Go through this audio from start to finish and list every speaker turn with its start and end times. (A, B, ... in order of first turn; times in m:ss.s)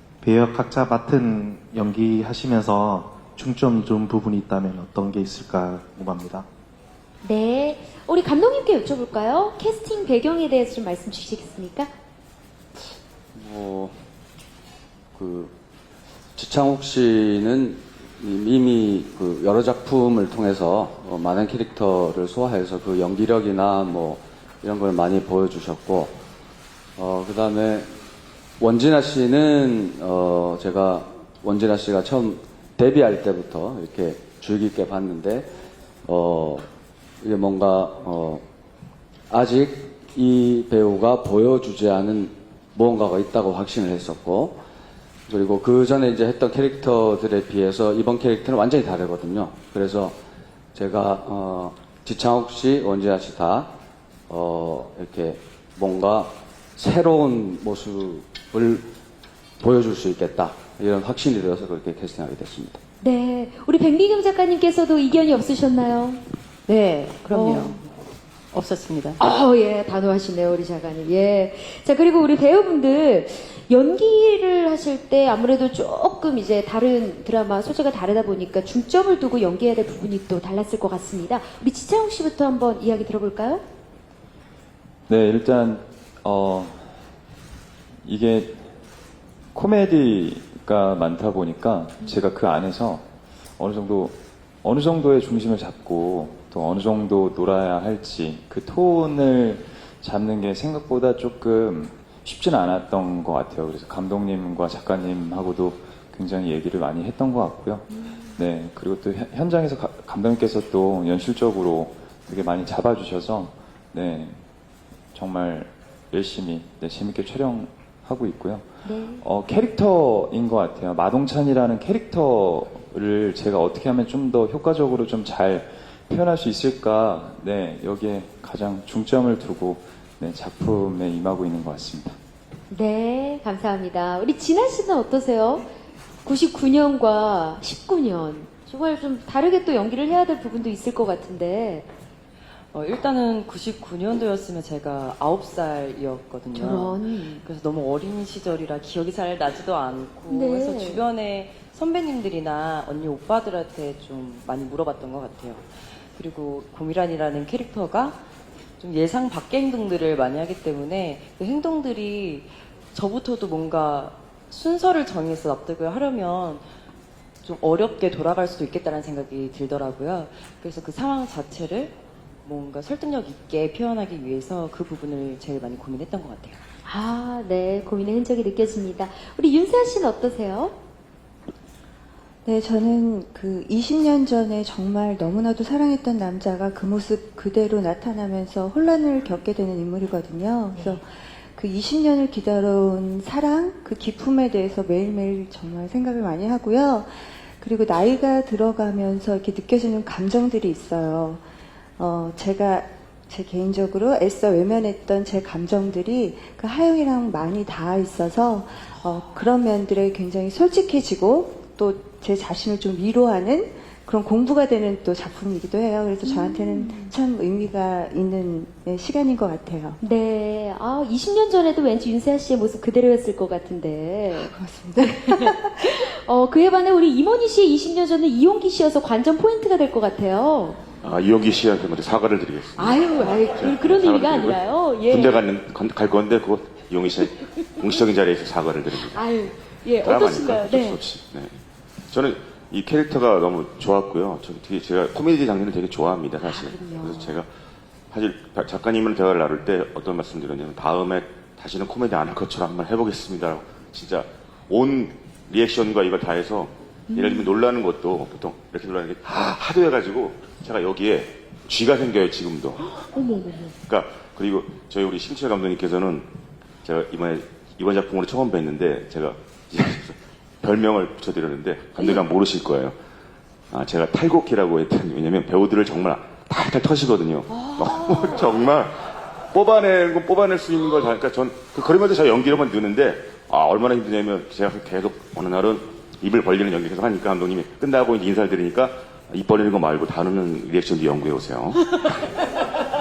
0:00.2-0:06.4 A
0:07.2-0:11.9 B
0:12.8-0:14.1 C
0:15.1-0:15.5 C
0:16.4-0:26.2 C
0:27.0-0:28.0 C
0:28.6-0:35.5 C
0:36.0-0:36.7 C
0:37.2-0:38.4 C
0:39.3-0:44.6 C
0:45.3-0:50.2 C
0:50.7-0:53.7 C
0:54.3-0:58.9 C
0:59.6-1:02.8 C
1:03.0-1:06.2 B
1:06.7-1:07.8 D
1:07.3-1:07.8 B
1:08.5-1:09.2 D
1:09.2-1:23.6 B
1:25.1-1:26.9 E
1:28.0-1:28.7 E
1:29.5-1:54.4 E
1:48.0-1:48.3 B
1:55.1-2:12.2 E
1:58.8-1:59.2 B
2:12.7-2:15.7 B
2:16.2-2:21.9 B
2:22.7-2:38.2 D
2:26.5-2:27.4 B
2:30.3-2:31.0 B
2:38.8-2:46.6 D
2:47.4-2:56.6 D
2:56.8-3:00.7 B
3:02.4-3:21.4 F
3:22.0-3:40.0 F
3:36.2-3:37.1 B
3:40.0-3:50.8 B
3:44.3-3:45.6 F
3:51.0-3:59.2 G
3:52.8-3:55.5 B
3:59.1-4:01.0 B
4:00.0-4:01.5 G
4:02.1-4:07.5 G
4:06.4-4:07.4 B
4:08.1-4:22.9 G
4:17.1-4:17.5 B
4:22.9-4:23.7 B
4:23.8-4:26.3 G
4:26.8-4:32.9 G
4:32.0-4:32.2 B
4:33.7-4:51.9 G
4:37.5-4:38.5 B
4:51.7-4:52.2 B